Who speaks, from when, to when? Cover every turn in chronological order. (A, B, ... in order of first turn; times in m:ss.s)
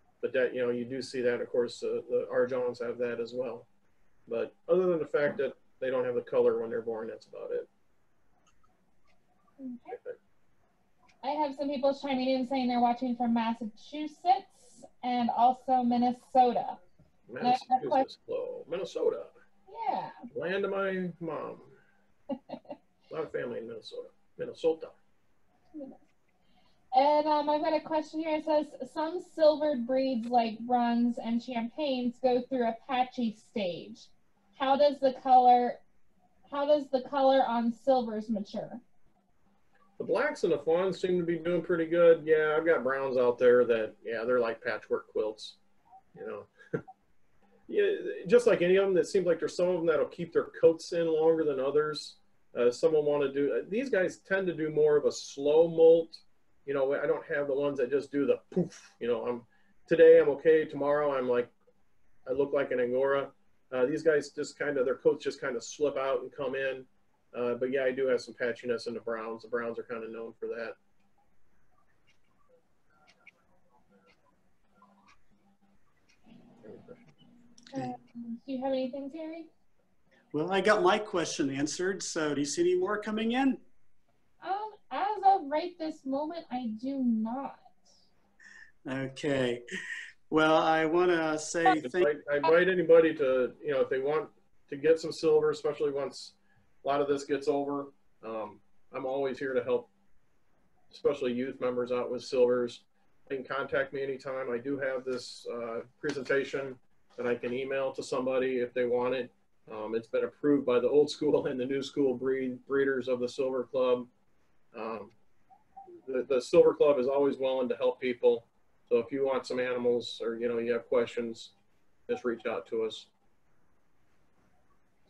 0:00.2-0:03.7 A
0:04.3-0:07.7 A
0:09.6-0:10.0 B
0:09.9-0:10.2 A
0:11.2-0:16.8 B
0:17.3-0:19.3 A
0:17.4-0:18.0 B
0:19.7-0:20.2 B
0:20.3-0:21.8 A
0:22.3-0:22.6 B
0:23.1-0:25.0 A
0:25.7-0:26.0 B
0:26.9-0:35.8 B
0:36.5-0:38.8 B
0:40.0-0:45.6 A
0:46.2-0:46.5 A
0:47.7-1:01.5 A
1:02.3-1:10.8 A
1:16.6-1:17.0 A
1:17.7-1:19.5 B
1:20.3-1:23.6 C
1:24.4-1:27.7 B
1:28.8-1:29.6 C
1:30.3-1:32.1 C
1:31.8-1:39.9 A
1:40.9-1:54.1 A
1:54.7-1:55.1 A
1:56.1-2:01.5 A
2:02.1-2:03.1 A